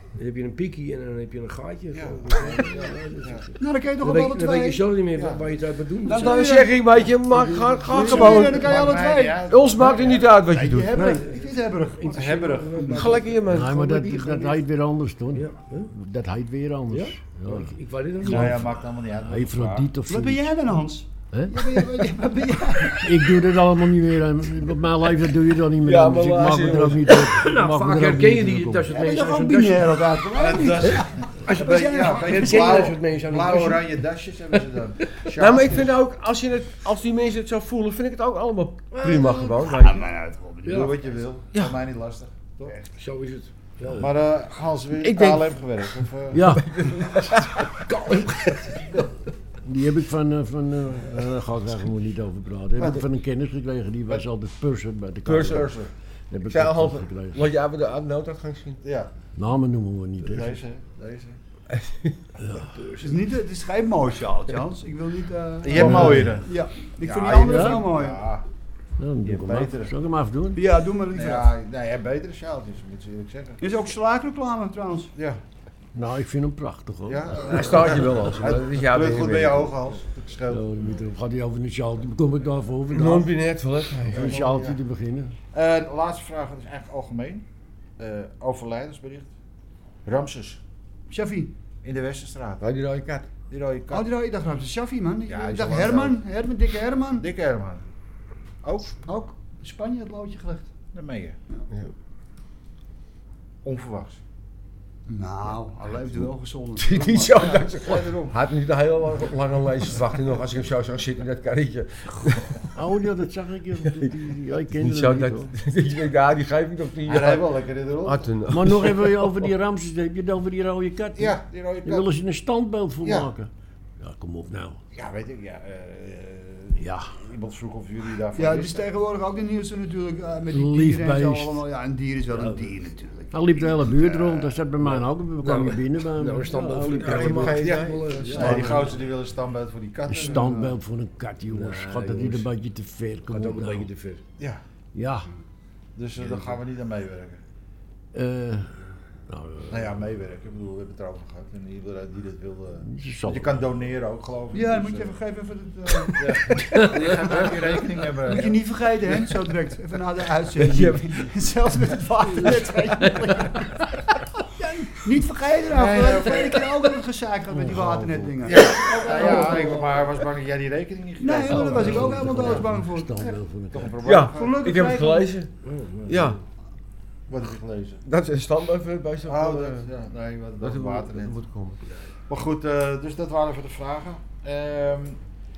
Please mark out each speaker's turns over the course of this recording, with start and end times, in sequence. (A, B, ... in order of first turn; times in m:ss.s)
0:00.2-0:06.7 A
0:01.9-0:03.5 B
0:03.6-0:04.8 C
0:05.2-0:05.4 B
0:06.0-0:08.9 D
0:07.8-0:12.6 C
0:07.9-0:10.3 B
0:09.5-0:11.0 D
0:10.9-0:14.6 A
0:12.1-0:13.0 B
0:12.9-0:14.3 D
0:13.5-0:17.7 E
0:15.3-0:15.9 A
0:16.9-0:18.7 A
0:18.2-0:19.9 B
0:18.2-0:18.6 E
0:19.2-0:20.4 E
0:20.1-0:23.2 C
0:21.3-0:21.6 E
0:22.9-0:28.9 E
0:25.8-0:27.2 D
0:27.1-0:30.0 A
0:28.9-0:32.9 C
0:30.3-0:35.9 B
0:31.4-0:34.0 A
0:35.4-0:40.1 D
0:38.9-0:39.8 A
0:39.9-0:40.9 C
0:40.6-0:41.0 A
0:40.7-0:42.8 B
0:41.5-0:41.8 D
0:42.9-0:44.1 A
0:43.9-0:46.5 B
0:45.0-0:46.1 D
0:46.3-0:46.7 E
0:46.7-0:47.5 D
0:47.9-0:49.0 A
0:49.6-0:55.8 E
0:52.8-0:53.1 B
0:55.3-0:55.6 D
0:55.4-0:55.9 B
0:56.3-0:57.5 E
0:56.5-0:58.8 D
0:58.8-0:59.1 B
0:59.4-1:00.6 E
1:00.2-1:01.4 B
1:01.8-1:02.1 D
1:02.4-1:02.7 E
1:03.0-1:08.2 C
1:05.6-1:08.5 B
1:05.8-1:06.4 E
1:07.4-1:07.9 E
1:09.0-1:10.6 E
1:09.2-1:09.9 B
1:10.6-1:11.5 C
1:11.1-1:13.6 B
1:13.6-1:15.1 C
1:16.0-1:17.7 E
1:17.1-1:20.8 B
1:17.5-1:19.6 D
1:20.5-1:23.3 E
1:22.9-1:24.4 D
1:24.1-1:24.8 B
1:24.1-1:25.4 E
1:25.5-1:27.4 B
1:28.0-1:29.3 B
1:30.0-1:30.6 B
1:31.1-1:31.5 C
1:31.8-1:32.7 B
1:32.6-1:33.3 D
1:33.5-1:34.1 B
1:33.9-1:37.2 C
1:35.3-1:36.2 B
1:37.2-1:37.8 B
1:38.6-1:39.0 B
1:39.1-1:40.7 C
1:40.9-1:41.4 B
1:43.6-1:44.2 B
1:45.1-1:47.9 C
1:46.8-1:52.6 D
1:47.8-1:48.3 B
1:52.8-1:55.5 E
1:54.8-1:59.3 D
1:57.1-1:58.3 B
1:58.5-2:04.8 E
2:01.2-2:02.1 B
2:03.0-2:03.3 B
2:04.9-2:08.9 B
2:06.8-2:07.1 E
2:08.3-2:13.3 C
2:10.5-2:11.6 E
2:13.3-2:17.6 E
2:13.8-2:14.6 B
2:14.9-2:19.0 A
2:17.0-2:18.8 D
2:17.4-2:20.8 B
2:18.4-2:18.9 E
2:20.1-2:23.9 E
2:21.5-2:22.5 A
2:23.3-2:24.2 A
2:24.9-2:25.3 E
2:26.0-2:27.4 B
2:28.1-2:28.7 E
2:29.3-2:30.0 E
2:29.7-2:35.2 B
2:32.8-2:33.7 E
2:34.5-2:37.5 C
2:36.1-2:38.6 B
2:38.2-2:43.8 C
2:40.6-2:41.3 D
2:44.6-2:49.9 C
2:45.7-2:46.7 B
2:47.5-2:48.4 E
2:48.4-2:52.6 B
2:49.1-2:49.9 A
2:51.2-2:53.2 C
2:51.5-2:54.0 E
2:53.7-2:54.6 B
2:54.0-2:55.5 D
2:54.3-2:55.3 C
2:55.6-2:56.4 A
2:56.1-2:56.4 D
2:57.3-2:58.0 B
2:58.0-2:59.9 D
2:59.3-3:01.4 B
3:00.6-3:01.8 D
3:02.3-3:05.2 B